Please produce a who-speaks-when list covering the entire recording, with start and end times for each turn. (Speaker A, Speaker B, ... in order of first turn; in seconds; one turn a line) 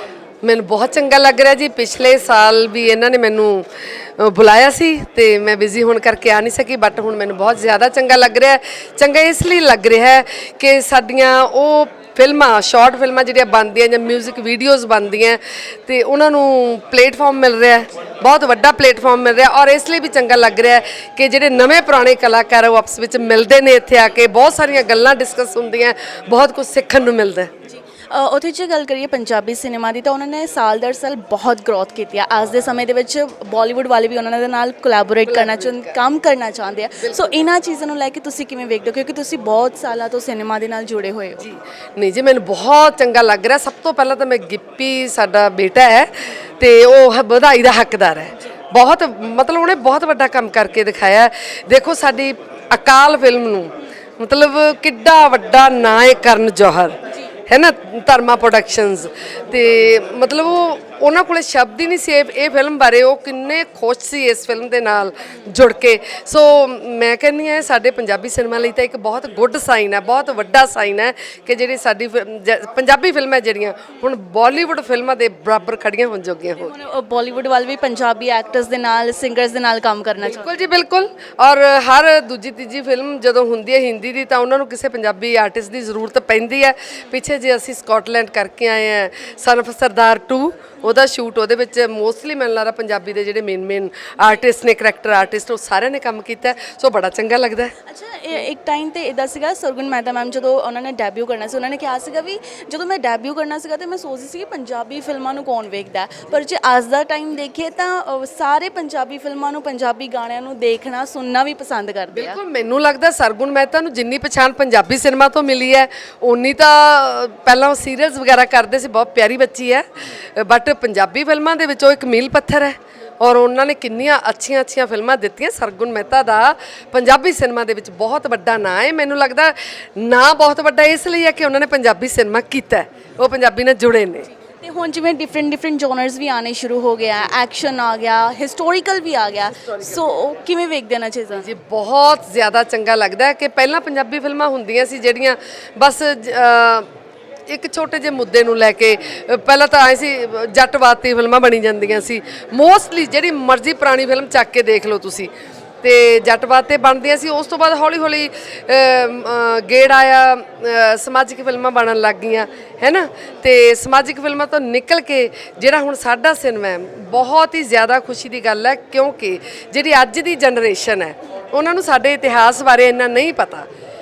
Speaker A: 0.4-27.5
Speaker B: 28.1-41.5
Speaker A: 35.2-36.0
Speaker A: 37.0-37.4
Speaker A: 41.4-56.9
Speaker A: 57.5-76.7
Speaker B: 76.6-80.6
Speaker A: 80.2-97.7
Speaker B: 97.9-112.4
Speaker A: 112.1-134.3
Speaker B: 134.6-141.5
Speaker A: 141.4-146.9
Speaker A: 147.5-155.3
Speaker A: 155.8-173.7